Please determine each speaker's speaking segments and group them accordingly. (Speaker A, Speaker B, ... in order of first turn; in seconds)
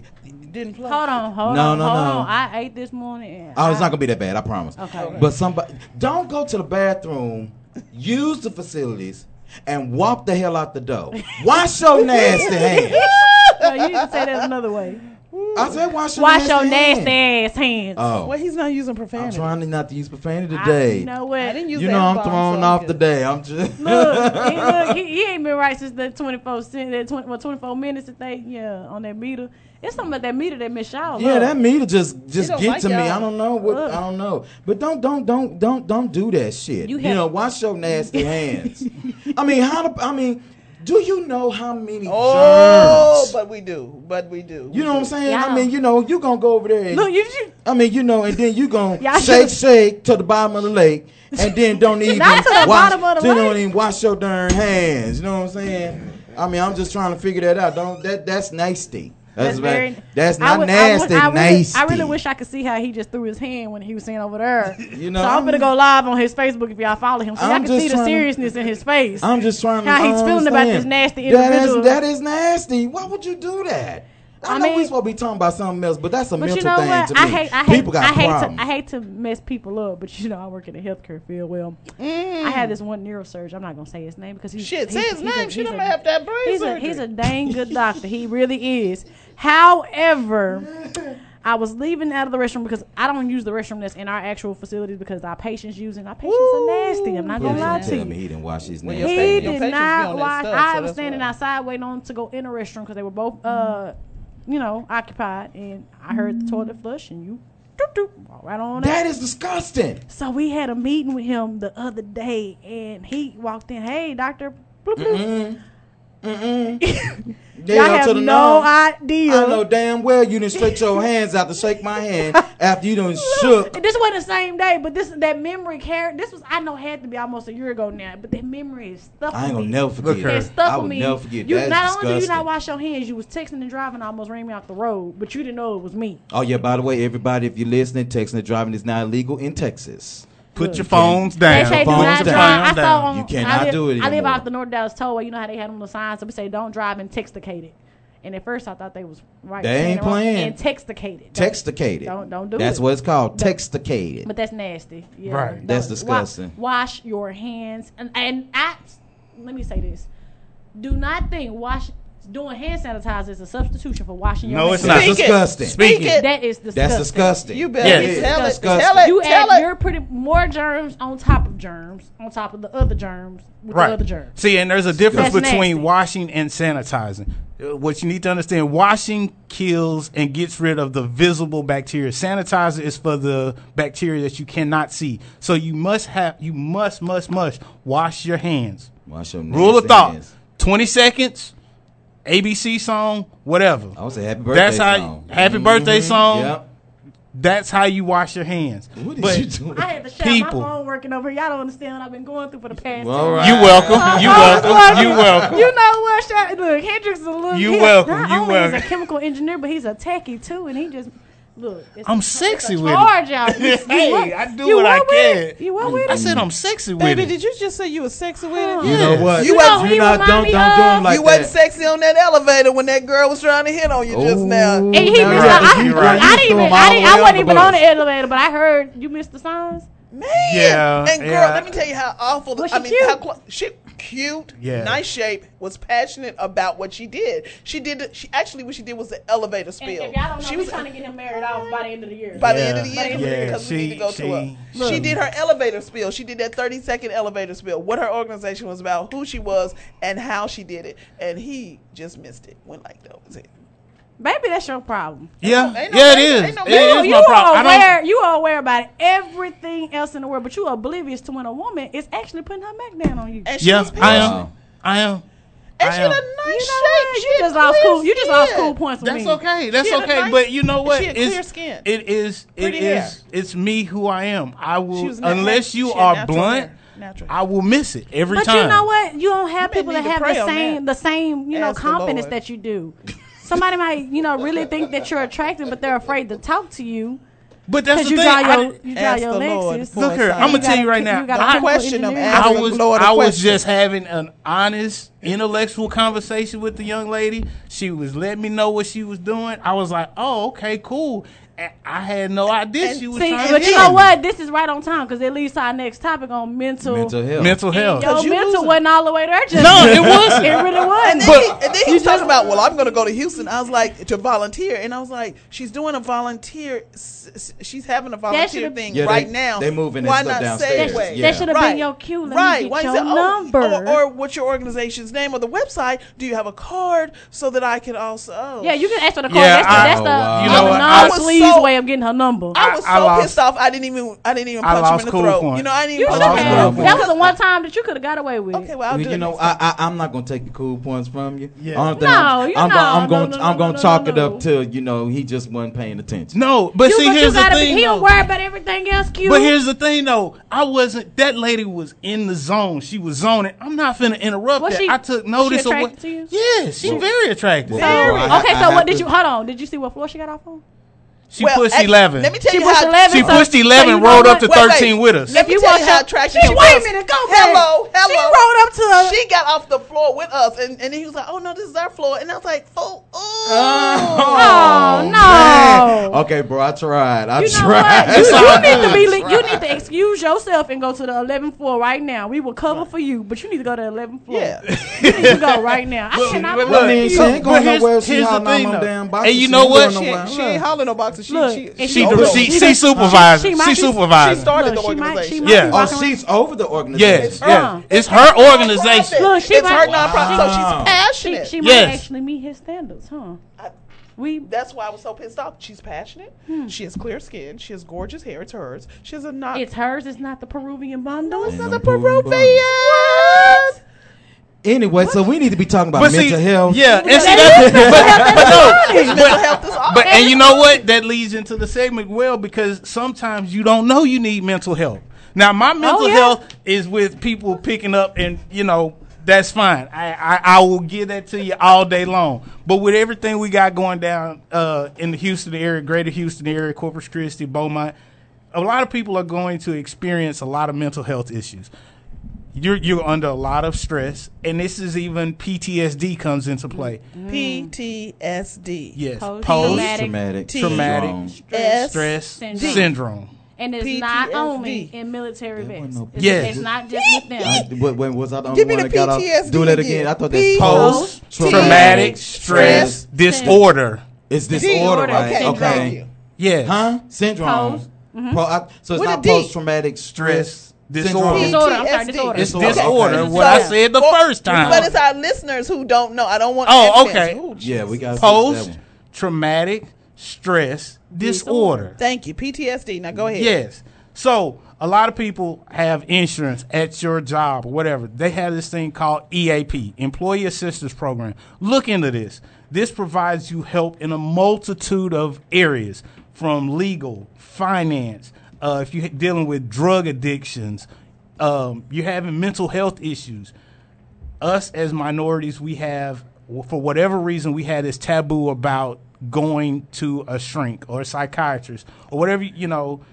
Speaker A: 0.5-1.1, 4.9-5.3, 12.2-14.3, 15.3-15.8, 18.2-19.5, 21.4-23.0, 32.3-33.3, 42.0-45.1, 82.0-82.7, 84.6-87.5, 96.2-98.1, 98.8-101.3, 164.8-166.3, 167.5-169.7, 217.0-220.0, 221.0-225.0, 230.1-241.8, 242.3-253.5, 255.4-257.1, 263.4-264.4, 265.8-268.8, 269.8-271.9, 272.6-273.1, 274.9-277.3, 279.6-280.8, 281.5-282.3, 288.9-293.6, 302.8-303.9, 307.9-308.8, 311.0-328.8, 330.5-331.7, 332.5-337.3, 338.5-339.6, 361.4-363.4, 364.0-374.7, 384.3-384.6, 389.7-392.8, 394.1-395.8, 397.2-401.6, 404.4-409.6, 411.2-413.8, 417.0-420.7, 447.3-449.0, 450.5-452.9, 453.8-454.9, 456.9-457.6, 458.5-463.0, 464.5-466.1, 468.9-469.5, 471.3-478.2, 482.0-483.6
Speaker B: 0.8-3.9, 4.8-5.2, 12.0-15.0, 16.1-18.1, 20.5-21.6, 23.8-31.5, 33.6-34.0, 36.8-37.2, 38.1-38.8, 45.2-45.7, 46.9-47.5, 49.0-49.6, 52.0-53.6, 59.4-69.3, 69.8-72.0, 74.4-74.9, 76.4-90.7, 91.4-98.1, 99.0-103.9, 104.5-109.0, 110.1-115.3, 116.8-119.6, 120.5-121.0, 123.2-136.2, 140.6-140.9, 141.4-153.6, 154.2-160.1, 160.8-165.1, 165.8-174.3, 175.1-175.9, 199.7-216.2, 218.5-221.1, 224.9-229.9, 232.6-233.2, 239.8-243.5, 244.7-245.1, 254.2-255.3, 256.6-263.5, 266.4-269.4, 278.3-287.2, 287.9-292.7, 303.1-307.1, 307.7-313.4, 318.3-318.8, 320.7-324.0, 328.6-332.6, 335.9-338.7, 341.9-344.4, 346.8-349.5, 354.6-356.3, 357.7-360.6, 362.5-364.6, 365.3-369.2, 374.3-376.2, 377.4-387.4, 391.3-396.1, 397.4-397.9, 398.7-403.4, 404.2-404.5, 406.5-406.7, 409.5-411.6, 412.8-413.6, 416.9-419.4, 420.1-420.5, 425.8-426.4, 446.7-447.7, 449.2-450.2, 451.2-452.9, 453.6-457.6, 460.7-462.2, 462.8-463.6, 464.5-466.0, 467.4-468.4, 471.3-473.8, 474.5-474.9, 481.1-481.9
Speaker C: 1.4-2.3, 3.5-13.1, 15.5-17.1, 17.9-18.3, 19.1-21.1, 21.7-25.0, 31.1-43.4, 44.7-47.1, 47.6-62.2, 64.9-65.7, 67.3-68.4, 69.2-78.6, 90.5-91.1, 97.4-99.6, 108.8-110.0, 115.0-115.6, 116.2-116.8, 117.5-118.7, 119.2-123.8, 129.3-132.4, 136.3-144.4, 149.6-150.6, 151.3-154.3, 155.6-156.5, 164.8-165.8, 166.7-169.1, 175.0-175.4, 189.1-190.3, 193.9-196.7, 198.9-199.9, 202.8-205.7, 215.8-216.4, 218.8-221.5, 224.1-227.8, 264.0-264.5, 306.8-307.6, 309.7-310.7, 318.9-321.5, 329.6-330.9, 336.1-337.3, 338.9-346.3, 356.8-357.1, 357.6-359.1, 373.4-379.5, 386.3-390.6, 392.2-393.2, 395.7-397.4, 399.7-401.0, 411.4-412.7, 414.6-416.8, 417.3-418.7, 449.5-451.3, 455.6-456.7, 457.4-463.6, 464.3-466.0, 466.6-471.6, 472.3-473.5, 477.6-478.8
Speaker D: 130.0-130.5, 140.5-143.1, 155.3-155.6, 164.4-166.2, 167.8-168.1, 173.7-188.9, 189.5-191.5, 192.2-193.9, 194.5-196.6, 197.3-199.5, 200.2-200.7, 203.4-205.6, 207.5-209.0, 212.1-217.3, 218.8-219.3, 225.1-226.7, 230.4-231.8, 234.6-235.0, 242.4-245.2, 255.4-257.9, 263.6-265.2, 265.8-266.2, 269.0-276.7, 277.3-278.9, 287.7-288.8, 289.9-291.7, 292.3-304.0, 307.4-308.1, 309.6-310.5, 311.2-311.6, 329.3-331.2, 332.6-333.4, 334.6-337.0, 341.6-341.9, 346.3-348.1, 349.2-358.3, 361.3-362.3, 363.1-365.4, 378.1-379.1, 384.7-385.6, 386.1-390.0, 391.8-394.5, 395.4-395.8, 396.9-399.3, 401.6-402.1, 415.9-437.9, 438.5-441.7, 442.5-447.0, 448.9-449.9, 450.6-451.2, 451.7-453.3, 456.2-456.6, 460.6-464.0, 466.4-466.8, 470.2-471.6, 472.3-474.9, 476.6-477.4, 478.1-482.0, 483.3-500.9, 501.4-503.5, 504.4-513.0